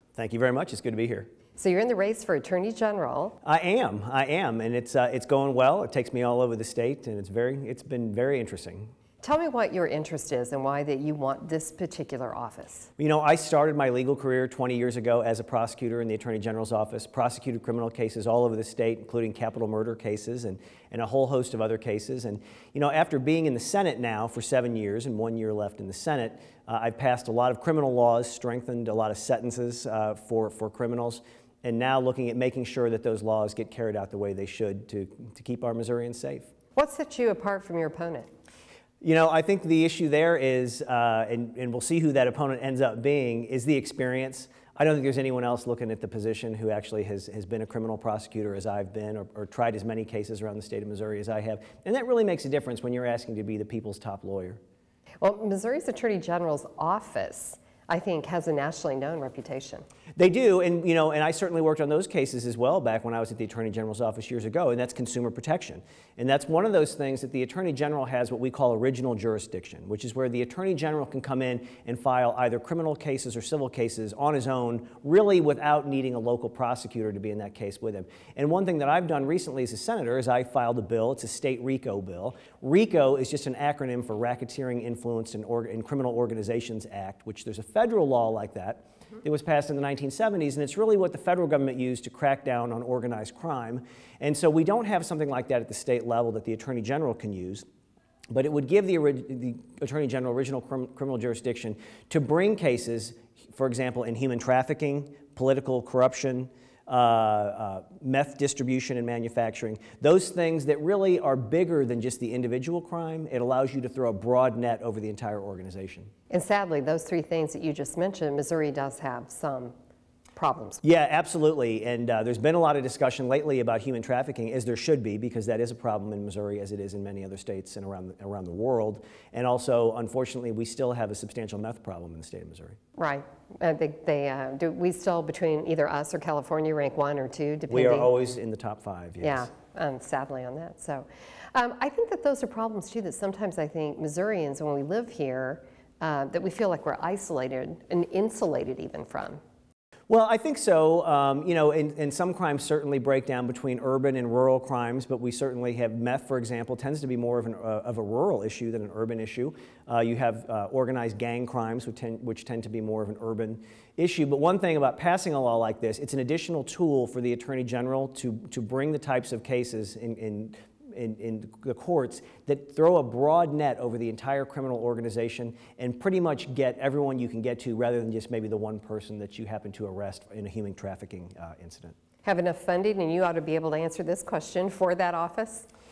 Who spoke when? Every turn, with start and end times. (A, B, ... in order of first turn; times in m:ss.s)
0:00.2-0:01.3 A
0:01.6-0:03.4 B
0:03.4-0:08.9 A
0:09.2-0:12.9 B
0:13.0-0:36.5 A
0:36.8-0:38.3 B
0:39.0-0:54.6 A
0:55.2-0:59.8 B
1:00.2-1:37.6 A
1:38.3-1:56.1 A
1:56.3-1:59.7 B
2:00.4-2:00.8 B
2:00.8-2:12.8 A
2:13.0-2:18.1 B
2:17.7-2:19.5 A
2:19.2-2:29.4 B
2:30.1-3:02.0 A
3:02.2-3:05.7 B